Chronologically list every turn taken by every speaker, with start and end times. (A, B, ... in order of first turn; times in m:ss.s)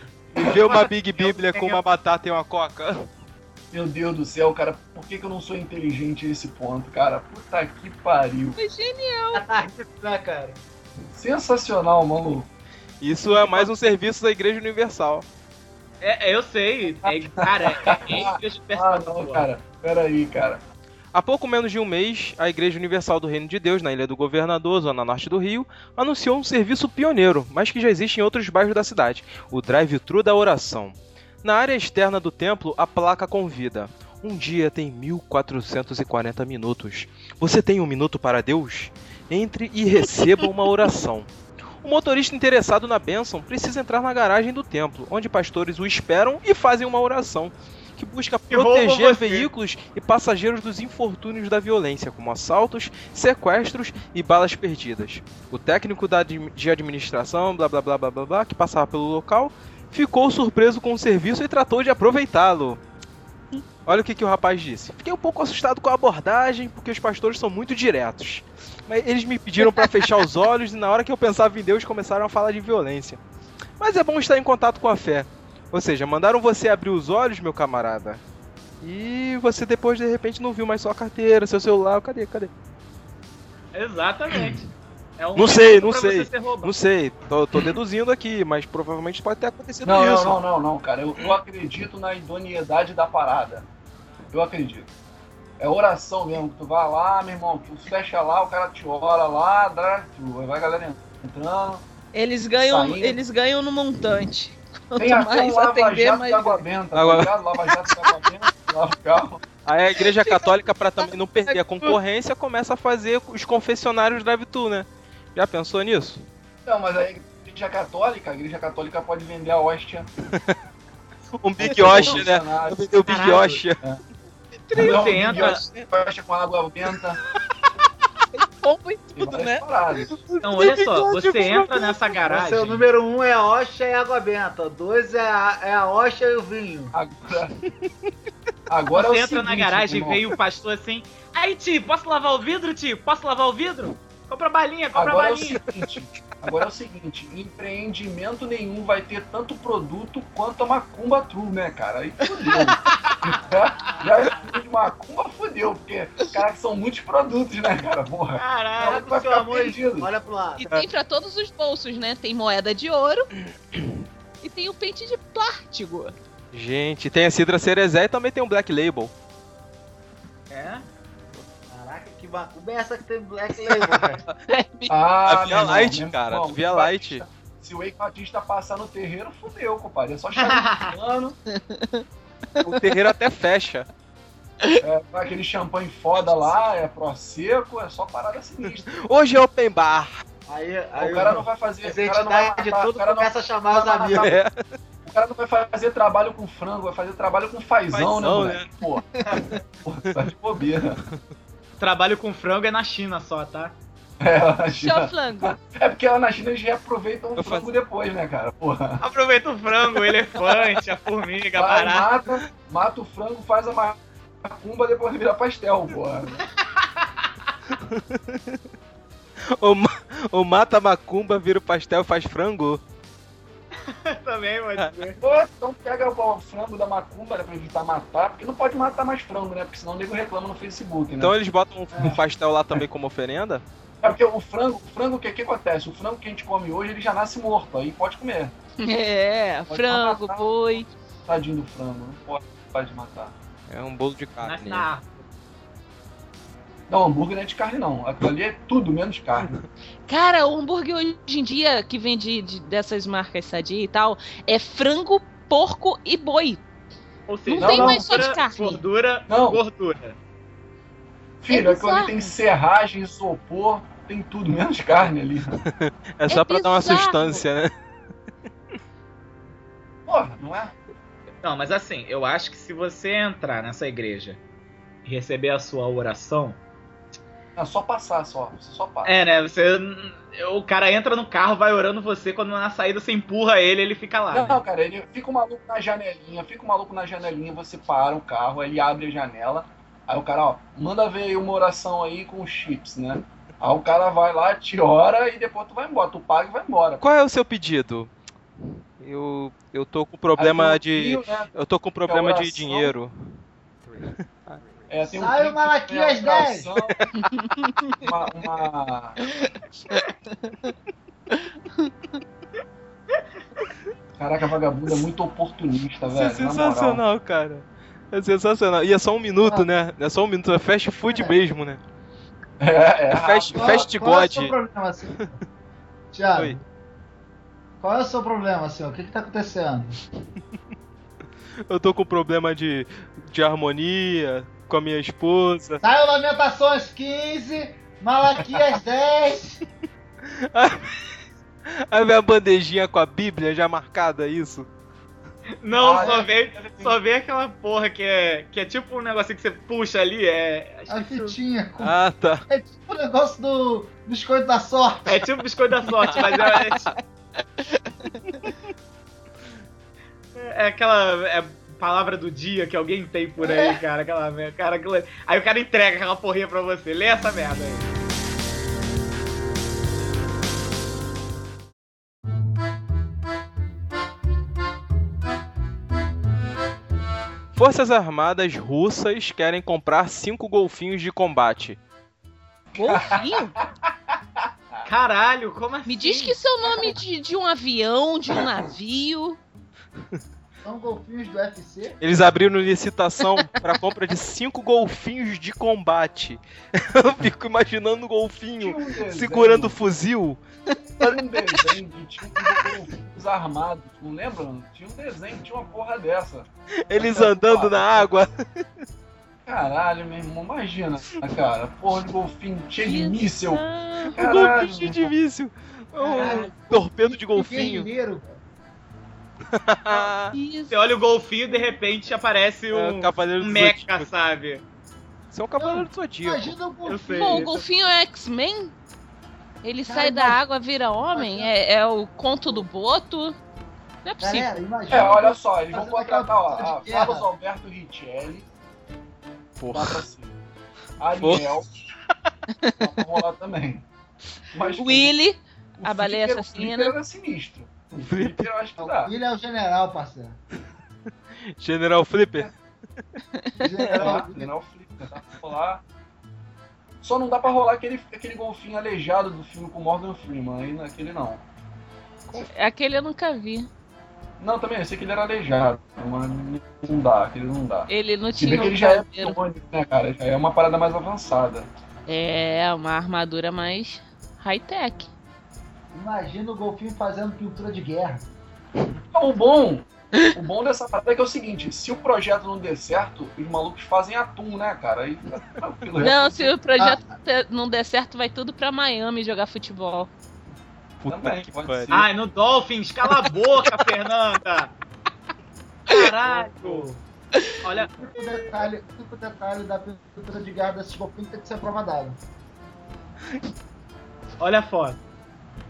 0:00.4-0:03.1 A
0:00.4-0:01.8 B
0:03.7-0:08.6 C
0:08.6-0:09.4 D
0:09.3-0:10.6 E
0:11.1-0:12.5 C
0:13.0-0:15.2 A
0:13.3-0:13.7 B
0:16.0-0:19.5 B
0:17.0-0:20.6 C
0:21.1-0:41.3 A
0:41.8-1:02.8 A
0:48.5-0:49.5 B
1:03.8-1:13.2 A
1:09.6-1:10.1 D
1:13.8-1:18.2 A
1:18.8-1:22.5 A
1:23.7-1:24.6 B
1:25.2-1:26.7 B
1:25.4-1:30.4 A
1:29.8-1:33.7 C
1:34.3-1:34.9 C
1:35.6-1:41.8 C
1:42.1-1:46.6 D
1:42.5-1:43.2 C
1:45.0-1:49.4 C
1:46.9-1:47.3 A
1:47.8-1:48.1 D
1:49.6-1:56.2 A
1:50.0-1:50.5 D
1:51.0-1:52.0 D
1:56.6-2:00.1 C
2:01.3-2:03.8 A
2:01.6-2:02.9 C
2:03.0-2:03.6 B
2:04.7-2:05.9 D
2:04.7-2:07.2 C
2:04.8-2:05.6 B
2:08.3-2:09.6 D
2:09.2-2:10.2 C
2:10.3-2:11.9 A
2:10.4-2:12.8 B
2:12.2-2:16.9 E
2:16.9-2:17.5 C
2:18.7-2:20.3 C
2:18.9-2:25.6 B
2:24.9-2:40.1 C
2:32.4-2:32.7 D
2:38.4-2:39.6 B
2:39.0-2:40.6 E
2:40.6-2:43.3 D
2:44.4-2:46.1 D
2:46.5-2:49.1 A
2:50.5-2:50.8 B
2:51.7-2:54.2 E
2:54.5-2:54.9 D
2:54.9-3:01.4 C
2:55.2-2:57.2 A
3:00.3-3:00.9 B
3:01.5-3:02.0 D
3:02.6-3:03.9 A
3:04.8-3:08.9 C
3:08.9-3:10.2 A
3:10.5-3:14.4 E
3:11.0-3:14.3 C
3:14.1-3:14.6 A
3:15.0-3:19.1 C
3:17.9-3:18.7 A
3:19.3-3:19.6 A
3:19.8-3:21.0 C
3:21.8-3:23.8 B
3:24.2-3:29.0 C
3:24.7-3:25.6 D
3:27.4-3:27.7 A
3:29.0-3:32.1 B
3:31.6-3:36.4 C
3:37.7-3:38.6 A
3:39.6-3:42.8 A
3:43.8-3:45.2 B
3:45.2-3:51.3 C
3:51.2-3:53.6 A
3:54.0-3:58.5 C
3:58.8-4:00.9 D
3:59.7-4:03.3 C
4:03.7-4:04.9 A
4:04.4-4:05.2 B
4:06.9-4:09.6 C
4:10.1-4:16.6 D
4:17.3-4:20.2 B
4:17.5-4:18.8 D
4:17.6-4:18.2 C
4:19.3-4:19.6 C
4:21.4-4:25.6 C
4:21.5-4:22.3 D
4:25.6-4:27.7 A
4:26.3-4:27.4 D
4:30.1-4:30.7 C
4:31.4-4:34.4 B
4:35.0-4:36.6 B
4:37.6-4:39.2 C
4:39.0-4:44.6 B
4:44.3-4:57.0 C
4:57.0-4:58.1 A
4:59.0-5:03.1 A
5:00.4-5:01.5 C
5:02.0-5:02.9 C
5:04.0-5:04.6 A
5:04.9-5:07.1 C
5:05.0-5:06.7 E
5:07.3-5:08.0 D
5:08.0-5:09.2 C
5:09.3-5:10.7 D
5:11.3-5:11.9 D
5:14.2-5:17.0 C
5:16.1-5:21.8 A
5:21.1-5:21.3 E
5:22.6-5:23.9 C
5:23.1-5:24.5 A
5:23.5-5:25.4 E
5:26.1-5:26.6 E
5:26.3-5:26.6 A
5:27.8-5:30.0 E
5:31.7-5:35.8 A
5:35.8-5:39.6 E
5:40.3-5:40.9 A
5:41.7-5:44.7 A
5:45.6-5:51.4 B
5:45.7-5:47.0 C
5:50.9-5:55.2 E
5:51.8-5:52.4 A
5:55.0-5:56.9 B
5:56.3-5:56.6 D
6:00.3-6:07.9 B
6:03.4-6:03.8 E
6:17.5-6:21.8 A
6:22.7-6:23.5 D
6:22.7-6:24.2 C
6:24.8-6:26.4 B
6:25.8-6:29.4 D
6:30.6-6:32.0 E
6:32.0-6:40.4 A
6:38.6-6:39.8 C
6:41.0-6:48.1 C
6:46.8-6:48.6 A
6:49.4-6:55.1 C
6:52.8-6:54.2 D
6:54.1-6:57.9 A
6:56.1-6:56.4 B
6:56.1-6:58.4 E
6:59.5-7:00.4 A
7:00.3-7:00.9 D
7:00.7-7:04.6 B
7:01.5-7:01.8 D
7:02.7-7:04.1 A
7:05.3-7:06.6 A
7:05.6-7:07.5 E
7:06.8-7:07.6 B
7:07.2-7:08.7 D
7:09.6-7:13.4 D
7:09.8-7:10.4 E
7:11.1-7:11.5 E
7:14.0-7:14.5 D
7:14.2-7:17.3 E
7:14.9-7:18.4 C
7:19.6-7:20.0 A
7:19.7-7:20.4 C
7:21.0-7:21.8 C
7:21.2-7:21.5 A
7:22.8-7:23.8 C
7:24.5-7:25.1 C
7:24.6-7:26.9 D
7:25.8-7:29.1 C
7:28.0-7:28.5 A
7:28.8-7:30.4 E
7:31.6-7:32.5 A
7:33.3-7:34.0 D
7:33.6-7:34.5 E
7:33.9-7:35.8 C
7:37.0-7:41.4 C
7:42.5-7:43.7 D
7:44.4-7:51.7 C
7:47.9-7:49.4 D
7:52.1-7:55.1 D
7:55.9-7:58.2 E
7:59.1-8:06.6 C
8:06.0-8:10.1 D
8:06.8-8:07.1 E
8:11.0-8:12.0 A
8:11.1-8:12.1 C
8:11.9-8:14.7 B
8:15.8-8:17.0 B
8:17.6-8:18.1 B
8:17.9-8:22.2 E
8:24.4-8:25.0 B